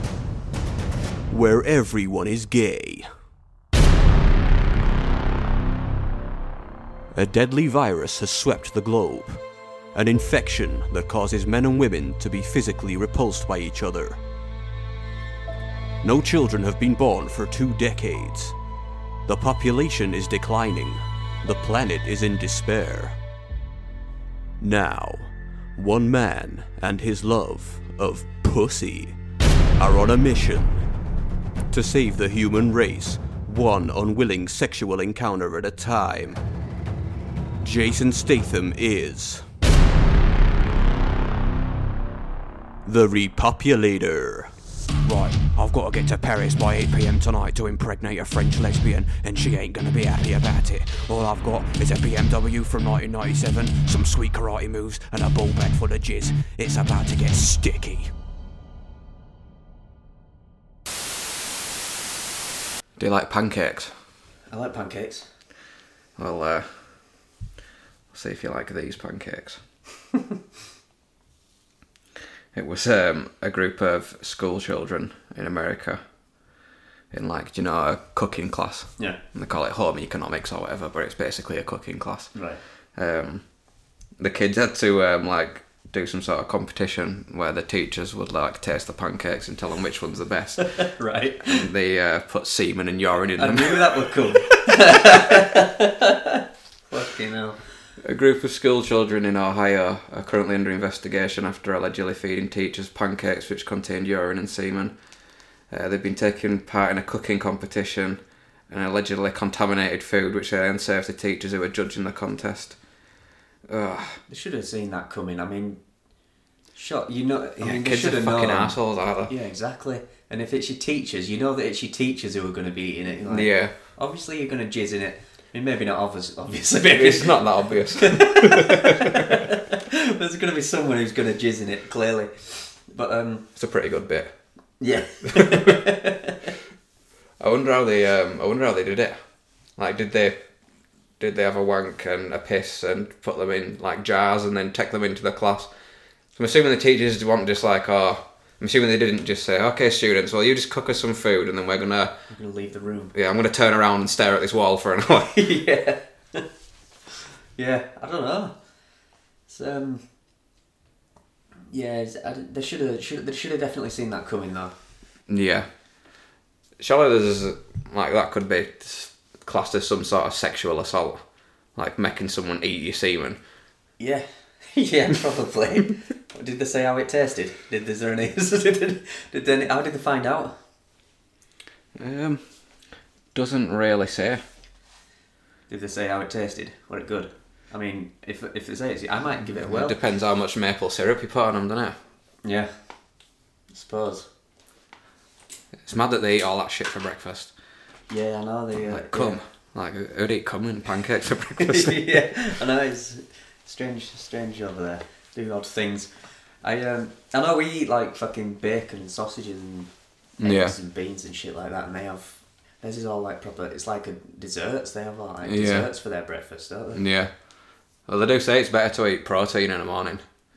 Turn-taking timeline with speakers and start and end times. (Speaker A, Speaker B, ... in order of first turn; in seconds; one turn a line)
Speaker A: 1.3-3.1
Speaker A: 7.1-9.4
Speaker A: 9.9-14.2
Speaker A: 16.0-18.6
Speaker A: 19.3-23.2
Speaker A: 24.6-29.2
Speaker A: 29.8-30.9
Speaker A: 31.7-36.4
Speaker A: 37.6-39.5
Speaker A: 42.9-58.1
Speaker B: 63.0-63.9
Speaker C: 64.5-65.3
Speaker B: 66.2-66.7
Speaker B: 68.1-69.6
Speaker B: 72.5-76.0
Speaker B: 77.1-82.3
Speaker C: 82.3-82.6
Speaker B: 83.0-83.4
Speaker B: 84.2-90.8
Speaker C: 90.7-91.7
Speaker B: 91.5-95.3
Speaker C: 93.4-97.6
Speaker B: 98.0-105.0
Speaker B: 105.7-112.8
Speaker B: 113.7-114.2
Speaker C: 114.3-115.8
Speaker C: 116.8-133.5
Speaker B: 117.6-119.3
Speaker B: 123.3-123.7
Speaker B: 126.9-129.4
Speaker B: 133.6-134.3
Speaker C: 134.8-136.6
Speaker B: 135.3-135.8
Speaker B: 137.4-139.2
Speaker B: 139.8-140.4
Speaker B: 141.2-145.7
Speaker B: 146.4-152.1
Speaker C: 152.3-153.1
Speaker B: 153.1-155.4
Speaker C: 155.3-156.5
Speaker C: 157.6-158.6
Speaker C: 159.5-160.1
Speaker C: 161.7-164.7
Speaker B: 165.3-165.7
Speaker B: 166.8-171.2
Speaker B: 171.8-173.4
Speaker C: 174.0-180.6
Speaker B: 182.0-182.4
Speaker B: 183.3-184.4
Speaker C: 185.7-190.0
Speaker B: 189.6-192.0
Speaker C: 192.4-192.7
Speaker C: 193.7-194.3
Speaker B: 195.8-197.5
Speaker C: 198.1-199.4
Speaker B: 198.9-202.1
Speaker C: 201.6-206.1
Speaker C: 206.6-217.0
Speaker B: 210.4-210.8
Speaker B: 215.4-215.9
Speaker B: 216.9-217.3
Speaker B: 218.1-220.2